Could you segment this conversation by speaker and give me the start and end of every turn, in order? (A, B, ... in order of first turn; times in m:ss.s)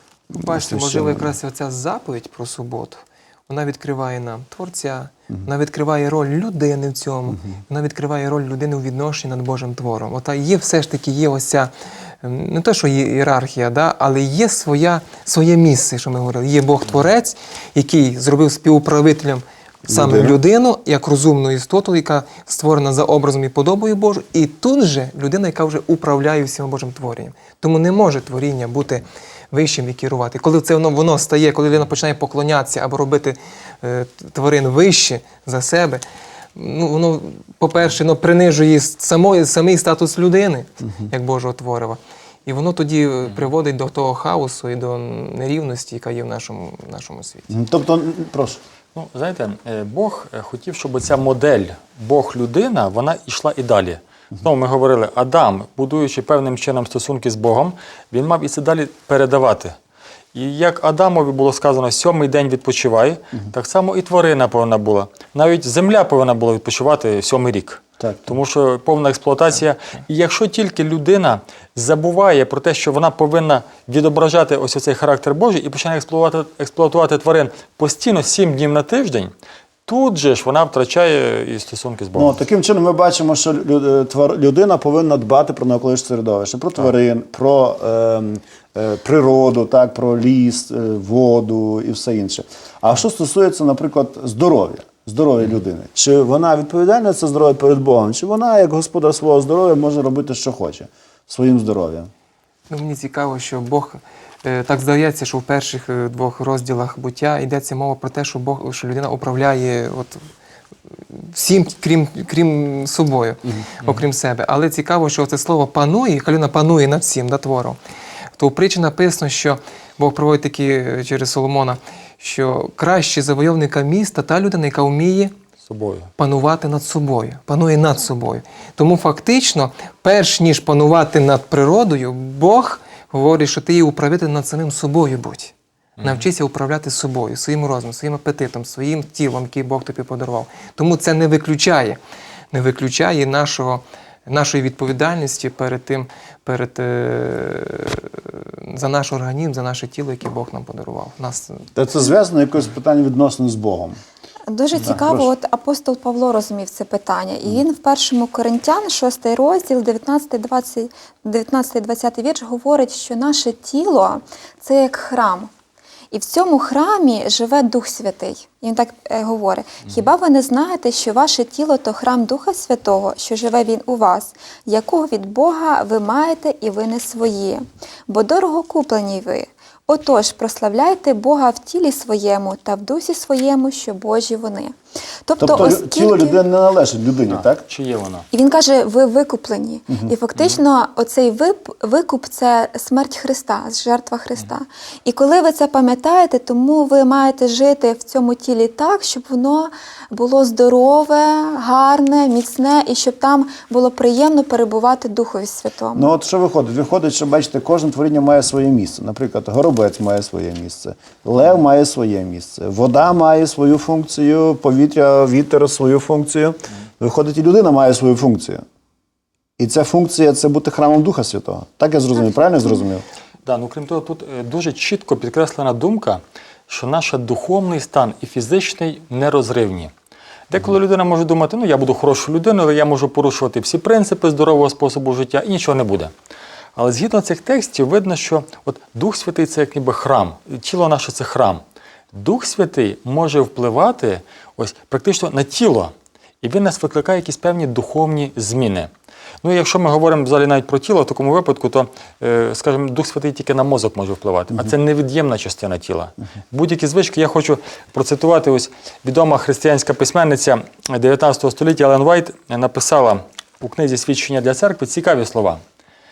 0:00.3-0:36.0 A
0:00.3-0:01.3 B
0:19.9-0:20.4 B
0:36.6-0:47.5 A
0:47.5-0:48.6 B
0:49.0-0:59.7 C
1:00.3-1:19.3 C
1:08.0-1:08.2 B
1:19.9-1:22.4 C
1:22.2-1:42.1 B
1:42.7-1:50.3 A
1:50.9-1:57.8 A
1:58.4-2:05.3 A
2:05.6-2:06.1 C
2:06.2-2:22.0 A
2:16.0-2:16.2 C
2:22.5-2:31.7 A
2:31.8-2:34.0 B
2:34.5-2:45.5 D
2:34.8-2:35.3 B
2:46.1-3:06.4 D
3:05.4-3:07.6 B
3:07.3-3:08.3 C
3:08.3-3:26.1 D
3:25.9-3:38.6 B
3:39.6-3:43.0 B
3:43.4-3:49.9 C
3:50.5-3:56.1 C
3:56.8-4:01.6 C
4:02.1-4:08.9 C
4:09.4-4:25.6 C